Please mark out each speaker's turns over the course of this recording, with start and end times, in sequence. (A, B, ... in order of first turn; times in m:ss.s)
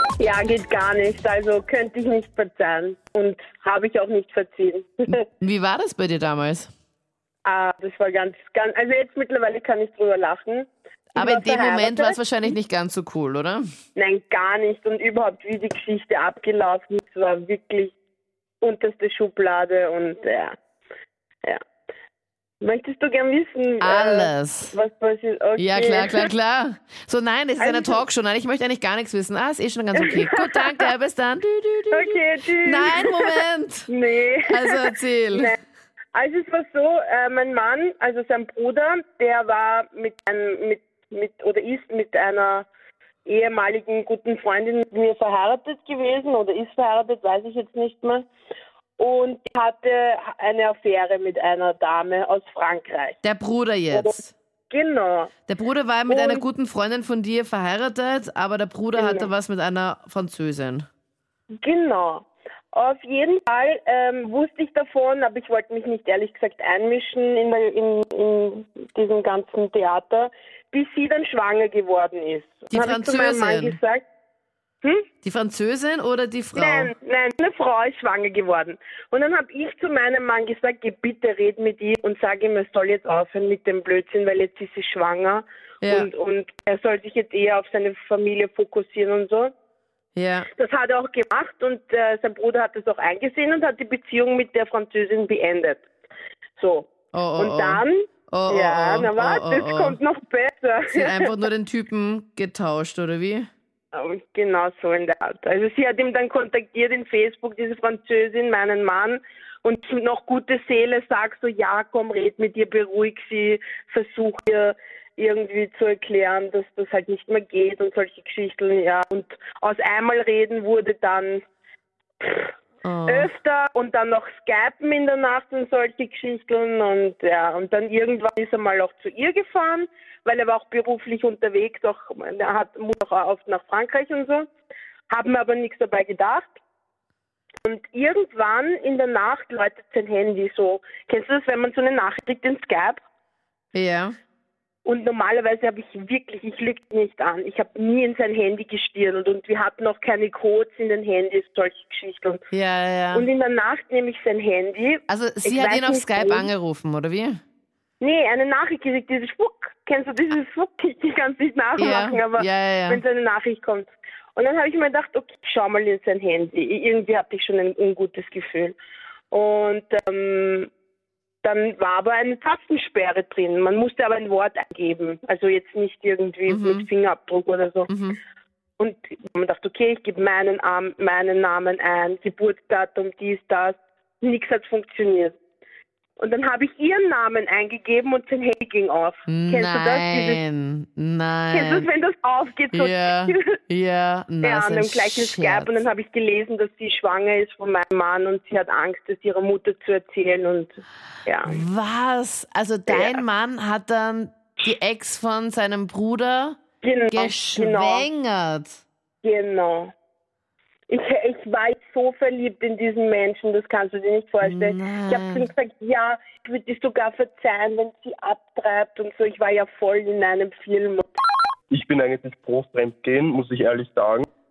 0:00.2-0:05.2 A
0:05.1-0:06.7 B
0:07.4-0:12.6 A
0:11.1-0:13.6 B
0:14.0-0:18.0 A
0:18.6-0:20.6 A
0:22.6-0:26.3 A
0:23.8-0:24.7 B
0:25.6-0:33.9 B
0:27.6-0:28.0 A
0:30.0-0:30.8 A
0:31.9-0:35.6 A
0:34.5-0:35.6 B
0:36.1-0:42.7 A
0:43.2-0:48.3 A
0:49.0-0:53.2 A
0:53.2-0:54.3 B
0:53.9-0:54.2 A
0:54.7-0:55.3 A
0:55.4-1:00.9 B
0:56.1-0:56.4 A
0:58.9-0:59.3 A
1:01.6-1:14.0 A
1:12.7-1:13.8 B
1:15.2-1:16.9 B
1:16.6-1:29.5 A
1:25.8-1:26.1 B
1:30.2-1:30.5 B
1:30.6-1:35.9 A
1:36.6-1:37.9 A
1:37.1-1:40.0 B
1:38.5-1:41.4 A
1:40.9-1:43.5 B
1:43.9-2:01.4 A
2:02.2-2:14.5 A
2:02.8-2:03.3 B
2:15.1-2:16.6 A
2:17.6-2:23.0 A
2:23.7-2:24.2 B
2:24.8-2:32.4 A
2:32.5-2:33.3 B
2:33.1-2:36.5 A
2:35.1-2:37.4 B
2:38.0-2:48.8 A
2:41.8-2:43.0 B
2:49.3-2:50.7 A
2:51.4-2:57.9 A
2:56.5-2:56.9 B
2:57.9-2:58.2 B
2:58.8-3:05.4 A
3:06.2-3:10.4 A
3:09.3-3:11.9 B
3:11.5-3:13.4 A
3:12.7-3:15.8 B
3:14.4-3:21.6 A
3:21.4-3:28.8 B
3:22.9-3:23.2 A
3:26.8-3:28.1 A
3:29.2-3:29.9 A
3:30.9-3:41.1 A
3:34.4-3:35.5 B
3:41.7-3:44.3 C